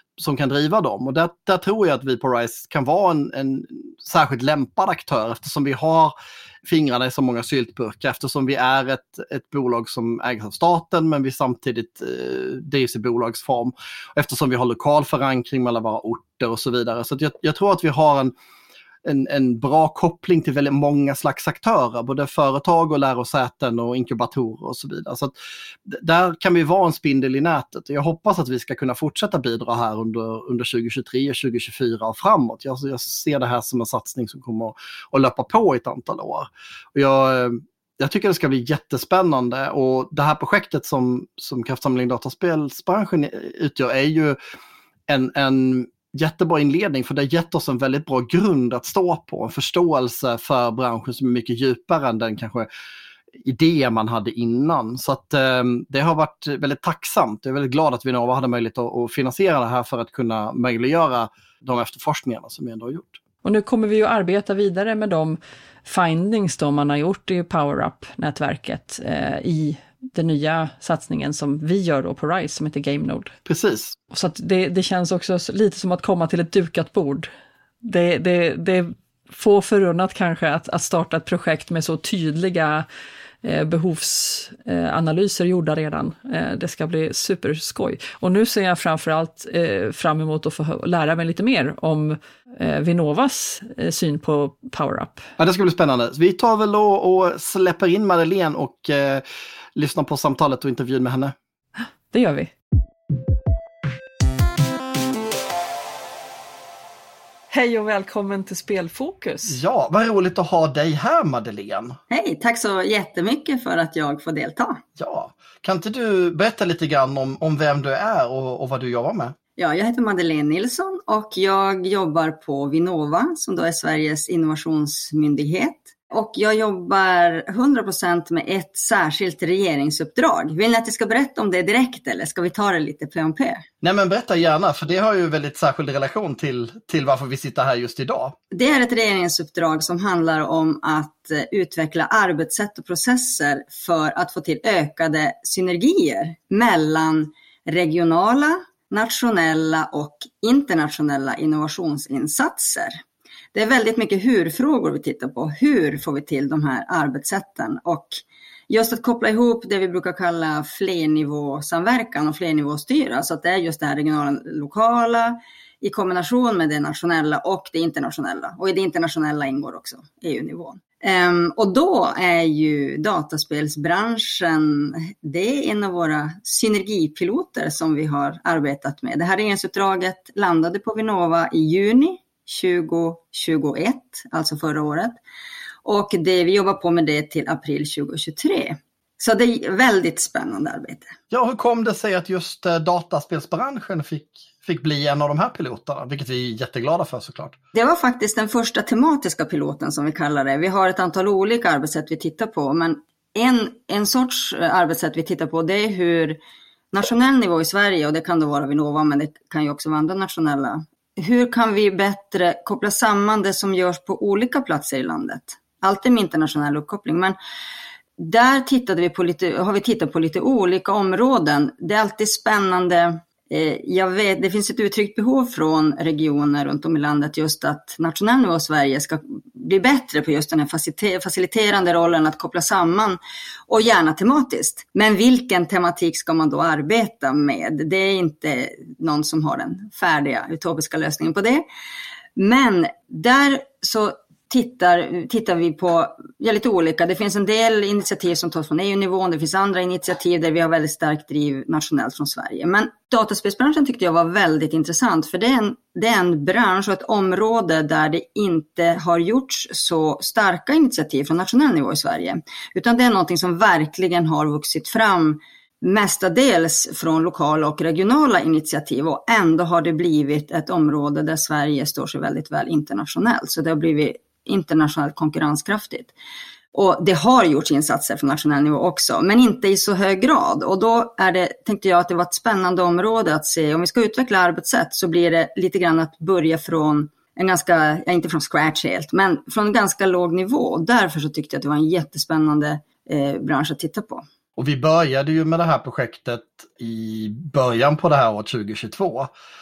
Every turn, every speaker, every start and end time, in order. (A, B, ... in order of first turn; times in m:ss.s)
0:00.2-0:06.1 A
0:06.6-0:18.3 A
0:19.0-0:25.3 A
0:25.8-0:44.4 A
0:45.1-0:52.7 A
0:53.4-1:03.2 A
1:03.4-1:13.3 B
1:13.4-1:14.0 A
1:14.1-1:17.3 B
1:17.8-1:22.8 B
1:23.4-1:35.2 B
1:35.4-1:39.2 A
1:39.7-1:41.3 A
1:41.8-1:42.5 B
1:47.5-1:49.6 B
1:49.5-1:52.0 A
1:52.1-1:54.8 C
1:55.0-1:59.3 A
1:59.6-2:13.6 C
2:13.8-2:18.4 A
2:18.5-2:33.0 C
2:33.5-3:05.2 C
3:05.8-3:11.1 C
3:11.3-3:17.6 A
3:17.7-3:26.4 C
3:26.9-3:37.4 C
3:38.2-4:01.6 C
4:02.4-4:36.1 C
4:36.7-4:54.2 C
4:54.6-4:59.3 A